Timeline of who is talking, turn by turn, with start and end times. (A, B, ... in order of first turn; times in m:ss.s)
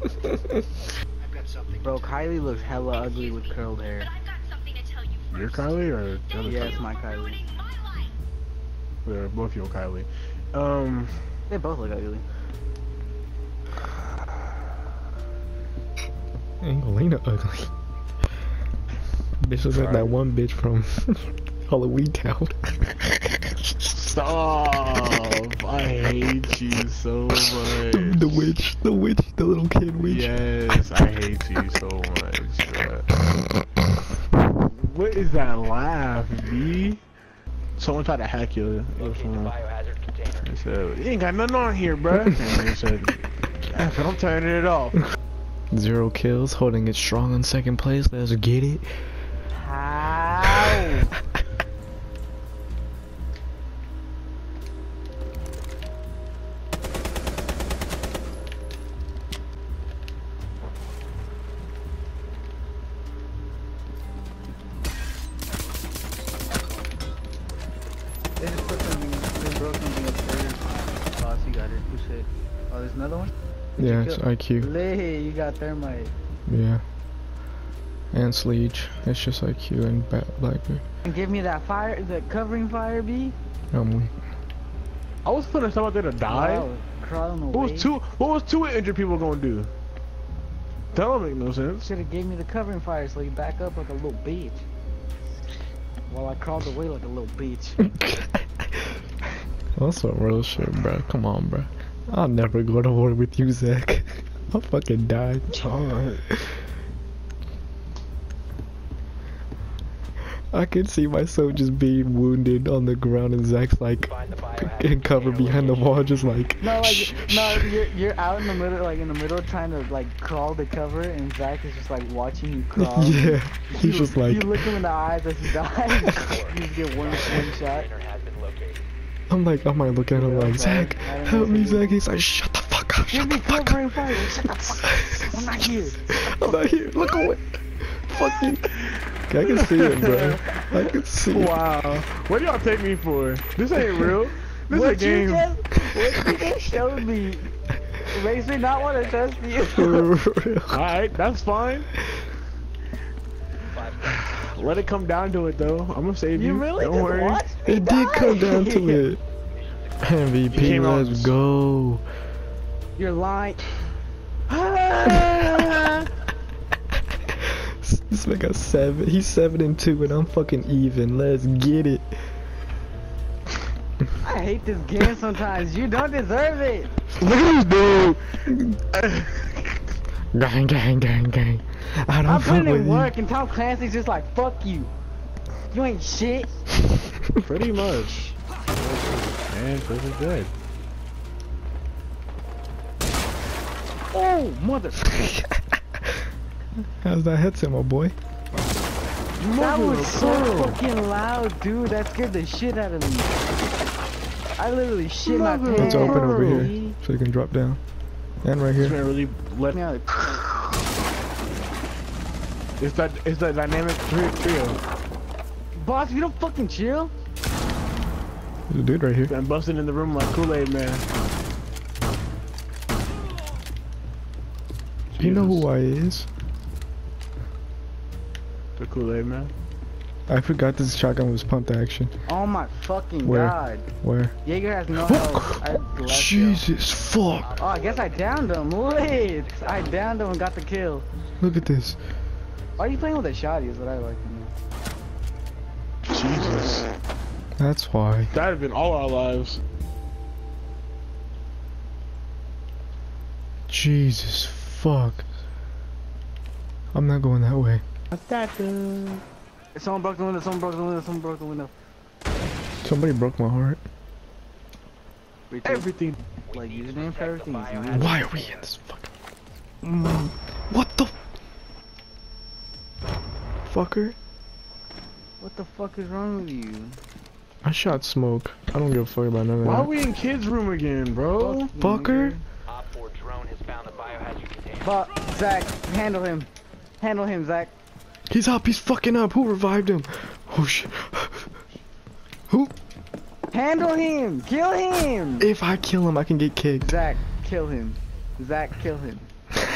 0:01.8-0:04.1 A
0:05.3-0:06.9 B
0:06.4-0:07.4 A
0:09.0-0:11.3 B
0:11.5-0:12.2 A
0:16.6-0:17.7 C
0:19.4-0:22.6 C
0:19.7-0:20.1 B
0:23.9-0:28.5 B
0:27.9-0:30.4 C
0:30.0-0:33.1 B
0:34.5-0:37.0 B
0:37.8-0:39.6 B
0:39.0-0:40.5 D
0:40.4-0:43.2 B
0:43.7-0:45.0 B
0:45.7-0:49.1 C
0:49.5-0:51.2 A
1:08.4-1:16.1 A
1:13.8-1:14.7 C
1:16.5-1:16.8 C
1:18.1-1:20.8 C
1:21.0-1:23.4 A
1:23.7-1:24.2 C
1:25.2-1:26.7 B
1:26.3-1:27.9 A
1:27.5-1:29.7 B
1:30.9-1:31.9 B
1:31.8-1:34.6 A
1:36.1-1:37.9 A
1:38.2-1:38.6 C
1:39.8-1:45.7 C
1:45.5-1:46.2 B
1:46.3-1:46.6 C
1:50.5-1:57.8 C
1:54.1-1:56.3 D
1:56.6-2:07.9 A
2:02.8-2:04.6 C
2:06.1-2:08.9 D
2:09.3-2:18.7 C
2:10.1-2:12.0 A
2:13.1-2:17.3 A
2:19.3-2:21.6 C
2:19.4-2:25.5 B
2:24.7-2:27.5 A
2:28.1-2:30.1 A
2:28.4-2:29.7 D
2:29.7-2:30.8 C
2:30.7-2:31.9 B
2:33.6-2:34.9 D
2:34.2-2:37.4 B
2:36.3-2:39.1 A
2:37.6-2:39.2 C
2:39.5-2:40.8 D
2:40.0-2:42.0 C
2:40.5-2:41.3 B
2:43.0-2:43.7 A
2:44.5-2:46.0 A
2:47.6-2:52.1 C
2:54.2-2:56.9 A
2:57.2-2:58.4 B
2:58.5-2:58.8 C
2:59.0-2:59.7 B
3:00.3-3:03.1 C
3:02.2-3:04.9 A
3:05.7-3:06.6 A
3:07.4-3:10.5 B
3:14.1-3:15.1 A
3:17.0-3:18.2 C
3:19.4-3:20.8 B
3:19.6-3:23.3 A
3:24.6-3:27.0 A
3:25.2-3:26.7 B
3:25.7-3:27.8 C
3:28.4-3:29.0 C
3:28.8-3:29.8 B
3:29.7-3:30.5 A
3:32.8-3:34.8 B
3:35.8-3:37.1 A
3:38.7-3:39.3 C
3:39.3-3:41.1 B
3:45.2-3:45.7 B
3:45.2-3:46.3 C
3:48.8-3:49.5 B
3:50.3-3:52.1 C
3:52.3-3:53.9 A
3:53.2-3:54.4 C
3:54.4-3:56.7 A
3:55.0-3:57.5 C
3:57.4-4:00.2 D
3:57.6-4:01.0 A
4:01.4-4:02.0 C
4:02.8-4:04.5 A
4:06.1-4:06.9 B
4:07.6-4:08.3 C
4:08.3-4:09.6 B
4:13.7-4:15.2 C
4:16.9-4:17.8 C
4:18.2-4:19.2 B
4:19.7-4:21.7 A
4:22.8-4:23.8 C
4:25.5-4:25.9 A
4:25.6-4:26.2 B
4:26.5-4:28.5 D
4:26.5-4:28.2 A
4:27.9-4:29.1 C
4:29.8-4:30.3 A
4:30.7-4:31.1 C
4:33.6-4:34.2 C
4:35.4-4:37.0 A
4:37.6-4:39.9 C
4:39.6-4:41.7 B
4:41.4-4:42.4 A
4:41.8-4:42.4 C
4:42.7-4:44.9 D
4:44.8-4:47.7 A
4:48.3-4:51.5 C
4:52.5-4:52.7 C
4:53.5-4:55.5 A
4:55.4-4:56.9 C
4:56.8-4:59.3 A